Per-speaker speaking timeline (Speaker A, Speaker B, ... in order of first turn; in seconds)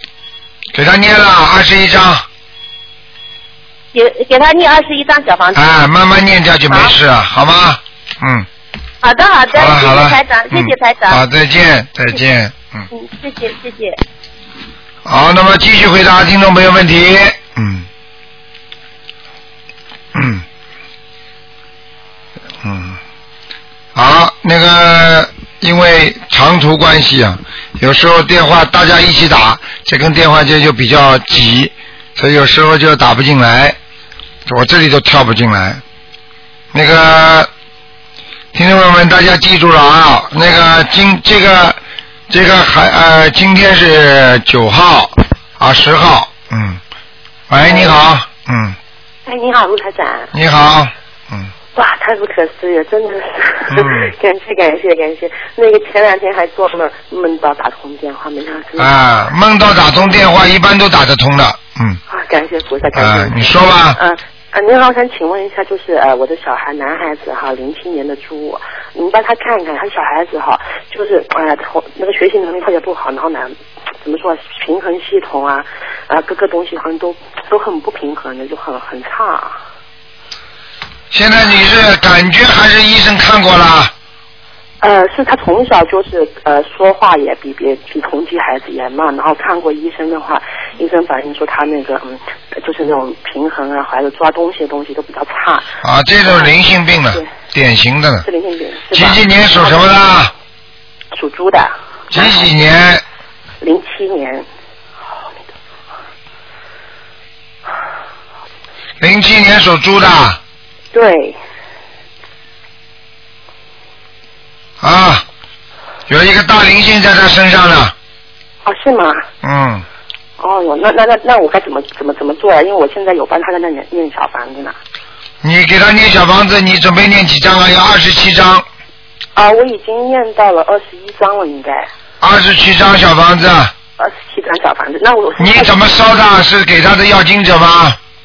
Speaker A: 0.7-2.2, 5.5-8.5, 9.5-12.9, 15.1-17.9, 20.1-20.4, 22.6-23.0, 23.9-33.8, 34.5-35.8, 36.7-37.5, 38.5-41.8, 42.3-46.8, 47.5-48.8, 50.3-51.5, 53.7-54.1, 58.8-62.0, 63.0-64.0, 81.1-83.9, 95.8-98.3, 98.9-100.3, 102.1-103.0, 109.0-110.4, 114.8-115.2, 116.1-117.9, 119.4-119.8, 125.4-128.7, 132.2-133.7, 135.4-138.0
Speaker B: 3.9-5.8, 9.0-11.2, 12.9-14.0
Speaker C: 47.6-48.0, 49.3-50.3, 51.8-59.0, 62.1-79.6, 84.8-95.7, 96.2-96.5, 98.2-99.9, 101.1-102.5, 103.6-104.5, 105.1-105.5, 110.9-111.4, 118.7-119.2, 120.4-124.8, 129.4-131.9, 134.0-135.8